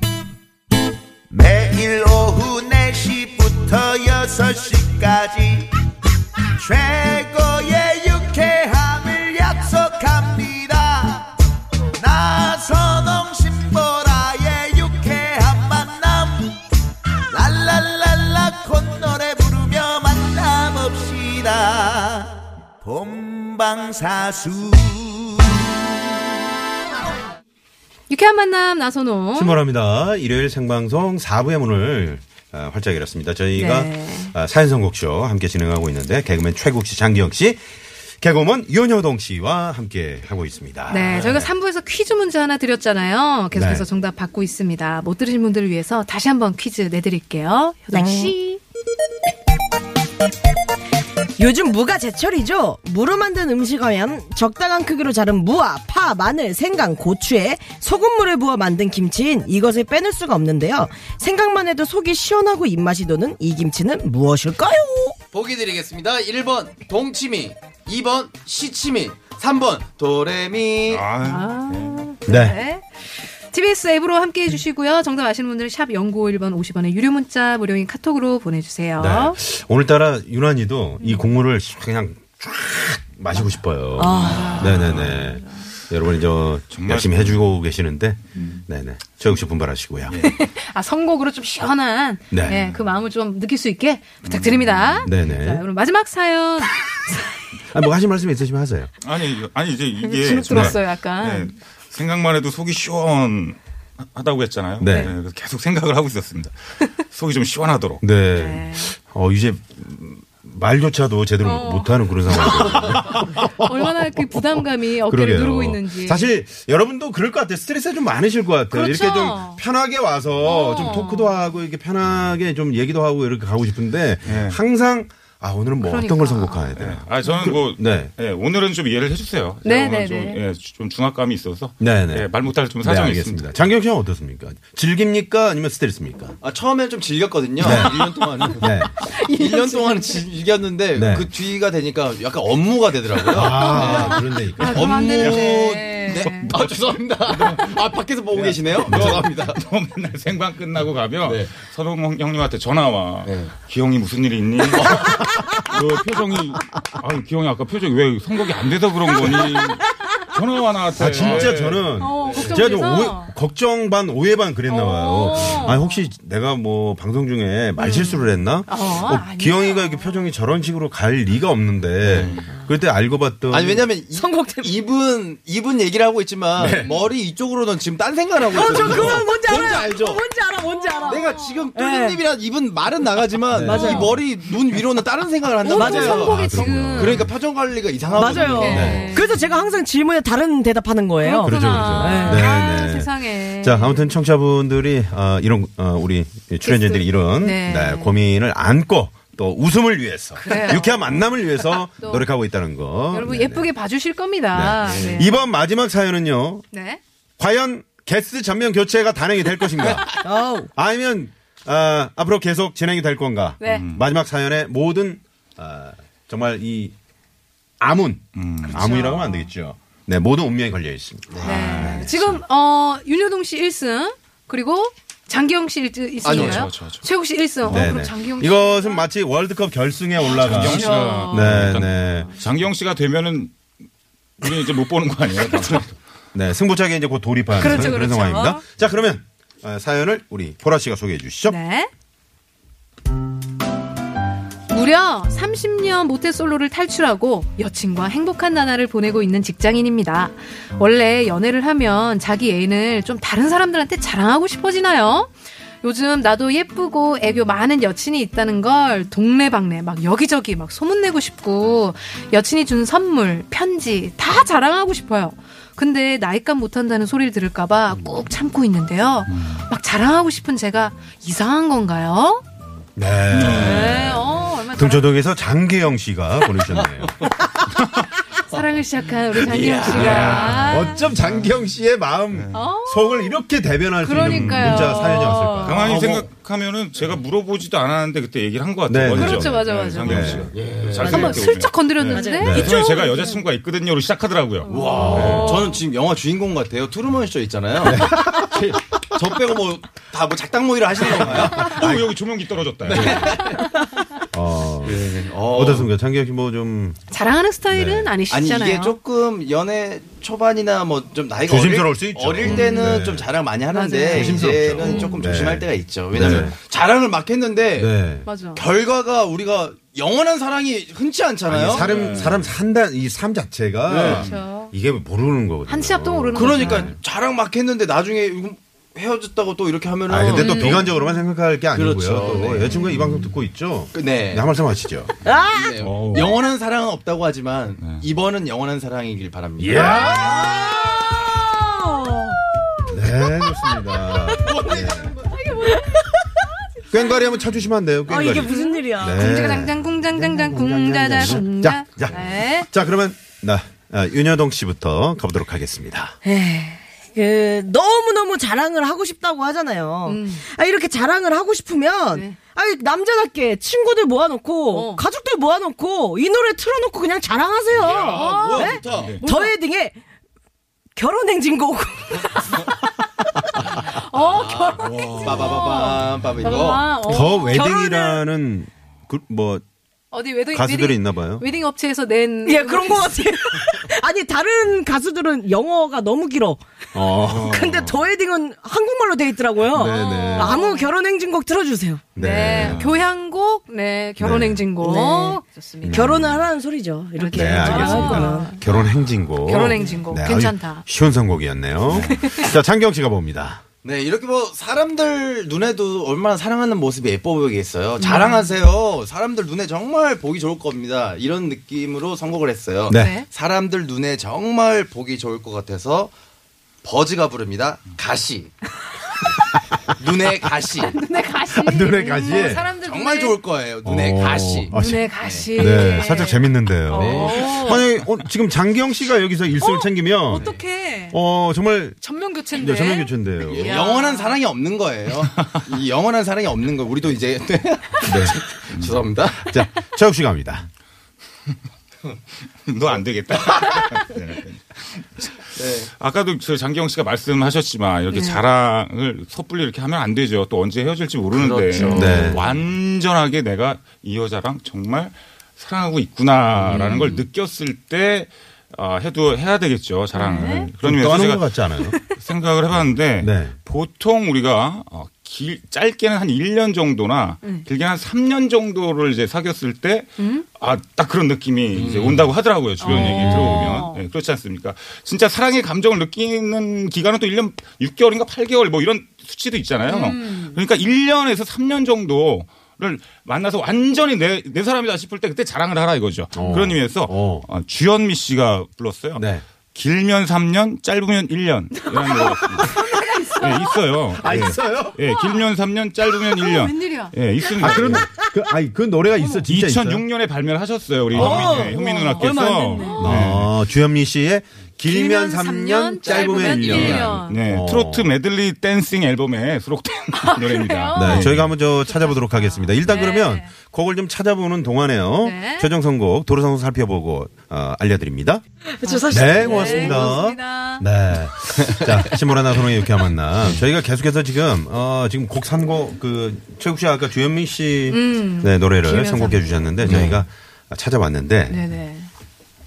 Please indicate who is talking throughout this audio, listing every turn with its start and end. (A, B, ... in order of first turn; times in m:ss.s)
0:01.3-0:05.7 A
0:06.6-0:11.3 A
0:12.0-0:16.6 A
0:17.3-0:25.7 A
0:28.1-0:29.6 B
0:29.3-0:37.6 C
0:33.5-0:34.3 B
0:38.2-0:41.5 C
0:40.9-0:48.6 B
0:43.5-0:43.8 C
0:47.9-0:48.3 D
0:51.4-1:05.2 D
1:05.3-1:11.0 E
1:10.9-1:12.0 F
1:11.2-1:19.4 B
1:12.2-1:12.6 C
1:19.0-1:30.2 C
1:24.0-1:24.7 D
1:24.2-1:25.6 B
1:24.6-1:25.2 F
1:26.7-1:27.5 F
1:30.2-1:36.8 B
1:32.3-1:32.8 C
1:34.2-1:35.1 F
1:35.0-1:35.6 C
1:37.7-1:38.9 C
1:39.0-1:48.0 F
1:40.0-1:41.5 B
1:40.4-1:40.8 C
1:44.8-1:45.1 C
1:44.8-1:45.1 B
1:48.0-2:08.1 C
1:48.3-1:48.9 B
1:51.4-1:56.3 B
1:58.7-1:59.6 B
2:00.4-2:01.4 B
2:04.2-2:04.6 F
2:05.8-2:06.7 B
2:06.8-2:13.5 F
2:09.6-2:10.4 B
2:11.8-2:16.4 C
2:16.4-2:29.6 E
2:17.6-2:18.9 C
2:17.6-2:20.2 B
2:20.9-2:21.3 C
2:23.3-2:25.0 C
2:23.4-2:26.5 B
2:25.2-2:25.7 F
2:26.5-2:27.7 F
2:28.3-2:42.0 F
2:28.8-2:29.2 C
2:31.2-2:31.5 E
2:33.2-2:33.5 E
2:34.7-2:35.2 E
2:40.9-2:53.9 C
2:42.0-2:43.3 B
2:42.2-2:42.6 E
2:44.7-2:45.9 B
2:47.8-2:50.2 B
2:52.0-2:52.5 E
2:53.5-3:00.2 E
2:54.1-2:54.8 D
2:56.6-2:56.9 C
2:58.4-3:02.3 D
3:01.0-3:09.2 E
3:01.2-3:01.6 B
3:03.5-3:04.0 C
3:03.5-3:04.2 D
3:03.8-3:04.1 B
3:05.6-3:07.2 B
3:05.7-3:06.3 D
3:06.1-3:07.3 C
3:08.1-3:12.5 D
3:08.3-3:09.5 B
3:08.7-3:09.1 C
3:11.2-3:14.1 B
3:11.4-3:23.7 C
3:16.6-3:18.2 B
3:20.4-3:20.8 D
3:20.4-3:22.3 B
3:23.1-3:25.4 B
3:24.5-3:26.6 C
3:24.9-3:25.2 E
3:26.7-3:27.0 B
3:27.4-3:30.2 C
3:29.8-3:30.2 E
3:30.2-3:30.7 D
3:30.8-3:36.9 C
3:33.6-3:33.9 B
3:33.6-3:34.0 F
3:37.8-3:42.4 C
3:38.3-3:38.8 F
3:38.7-3:39.5 B
3:41.3-3:41.7 E
3:41.4-3:49.0 B
3:41.5-3:42.2 F
3:46.2-3:46.6 E
3:46.3-3:47.0 F
3:47.6-3:47.9 F
3:47.7-3:52.3 C
3:50.2-3:52.2 B
3:50.4-3:53.5 F
3:54.4-3:56.0 F
3:55.5-3:55.8 B
3:56.3-4:01.6 C
3:57.6-3:58.6 B
4:01.4-4:01.9 B
4:04.7-4:32.4 B
4:29.3-4:29.6 F
4:33.0-4:37.2 C
4:33.3-4:34.2 F
4:33.5-4:35.4 B
4:36.6-4:37.4 E
4:38.3-4:41.0 B
4:39.4-4:40.7 E
4:39.9-4:46.0 C
4:40.1-4:41.6 F
4:42.3-4:42.6 F
4:42.5-4:43.4 B
4:44.0-4:46.0 B
4:44.1-4:55.5 F
4:45.9-4:46.3 E
4:48.9-4:50.5 C
4:49.1-4:53.4 B
4:50.5-4:51.5 E
4:52.1-4:52.7 D
4:52.4-4:52.8 C
4:54.7-4:55.7 B
4:54.7-4:58.2 E
4:54.9-4:55.6 C
4:57.8-4:59.2 C
4:59.1-5:01.9 E
5:01.1-5:02.1 C
5:01.5-5:03.4 F
5:02.8-5:03.8 E
5:02.9-5:03.4 C
5:04.3-5:07.0 C
5:04.8-5:05.9 E
5:07.1-5:09.0 B
5:07.7-5:08.1 C
5:08.3-5:17.9 E
5:11.4-5:13.3 C
5:12.4-5:13.0 B
5:13.7-5:15.2 B
5:14.1-5:16.6 C
5:17.7-5:18.3 C
5:18.2-5:18.6 B
5:18.5-5:21.9 E
5:21.5-5:26.9 C
5:21.7-5:22.5 F
5:21.8-5:22.2 B
5:23.8-5:24.3 E
5:24.0-5:24.7 B
5:25.6-5:26.9 B
5:26.3-5:30.9 E
5:30.1-5:35.1 C
5:30.3-5:31.1 B
5:31.7-5:32.7 E
5:32.9-5:33.2 F
5:33.9-5:34.5 E
5:35.2-5:35.8 D
5:35.5-5:40.1 E
5:35.8-5:36.4 F
5:37.8-5:38.0 F
5:39.6-5:40.2 F
5:39.7-5:42.4 D
5:42.9-5:45.1 C
5:43.4-5:44.9 D
5:44.4-5:45.4 E
5:45.5-5:46.5 D
5:46.9-5:56.2 C
5:48.0-5:49.2 D
5:48.3-5:52.7 B
5:56.2-6:10.0 D
6:00.0-6:00.4 B
6:02.1-6:02.4 B
6:04.7-6:05.0 B
6:07.7-6:08.1 F
6:07.9-6:09.6 B
6:08.1-6:09.2 E
6:08.9-6:09.2 F
6:11.0-6:12.5 D
6:13.7-6:17.7 B
6:14.2-6:16.9 E
6:14.8-6:15.6 F
6:17.0-6:19.6 C
6:17.5-6:18.2 D
6:20.1-6:23.1 B
6:20.5-6:21.4 C
6:22.4-6:32.0 D
6:26.9-6:27.5 C
6:27.3-6:28.0 F
6:29.7-6:30.6 C
6:29.8-6:30.9 B
6:32.2-6:32.9 C
6:32.2-6:36.1 B
6:32.5-6:32.9 F
6:34.2-6:34.6 C
6:34.8-6:38.5 D
6:35.8-6:36.4 C
6:37.2-6:38.6 B
6:37.3-6:43.6 C
6:39.4-6:40.9 B
6:41.9-6:42.2 F
6:41.9-6:42.5 B
6:43.8-6:56.1 E
6:48.0-6:48.5 B
6:52.9-6:53.2 C
6:52.9-6:53.3 B
6:56.8-6:58.6 E
7:00.0-7:00.9 E
7:00.8-7:03.4 B
7:01.5-7:02.7 C
7:02.3-7:05.9 E
7:03.8-7:10.6 C
7:04.7-7:07.9 B
7:06.9-7:07.9 E
7:09.6-7:11.2 B
7:11.1-7:13.8 C
7:12.0-7:14.4 B
7:13.5-7:19.6 E
7:18.0-7:18.4 C
7:18.7-7:19.1 F
7:19.3-7:20.7 C
7:22.6-8:18.1 F
7:25.6-7:25.9 E
7:28.1-7:28.4 B
7:31.3-7:32.4 E
7:31.8-7:32.1 B
7:31.9-7:32.5 C
7:36.7-7:37.2 B
7:40.1-7:40.7 B
7:40.8-7:42.0 C
7:41.8-7:42.2 B
7:43.2-7:43.6 C
7:50.2-7:50.5 B
7:51.8-7:52.2 E
7:52.8-7:54.0 B
7:52.8-7:53.8 C
7:59.9-8:00.6 B
8:06.3-8:07.5 C
8:09.2-8:09.4 C
8:12.1-8:13.7 B
8:14.1-8:15.0 C
8:15.1-8:15.4 B
8:16.3-8:17.1 B
8:17.6-8:20.0 C
8:19.1-8:19.4 B
8:19.5-8:23.6 F
8:21.1-8:21.6 C
8:21.2-8:22.2 D
8:21.2-8:23.4 B
8:23.0-8:28.1 C
8:24.8-8:27.4 B
8:26.0-8:27.1 E
8:26.6-8:31.5 F
8:30.2-8:33.5 B
8:30.9-8:38.4 C
8:35.2-8:35.7 B
8:38.7-8:40.1 D
8:38.8-8:40.8 B
8:39.1-8:51.6 C
8:41.6-8:42.2 E
8:47.9-8:49.4 B
8:49.8-8:50.2 E
8:51.5-8:52.1 B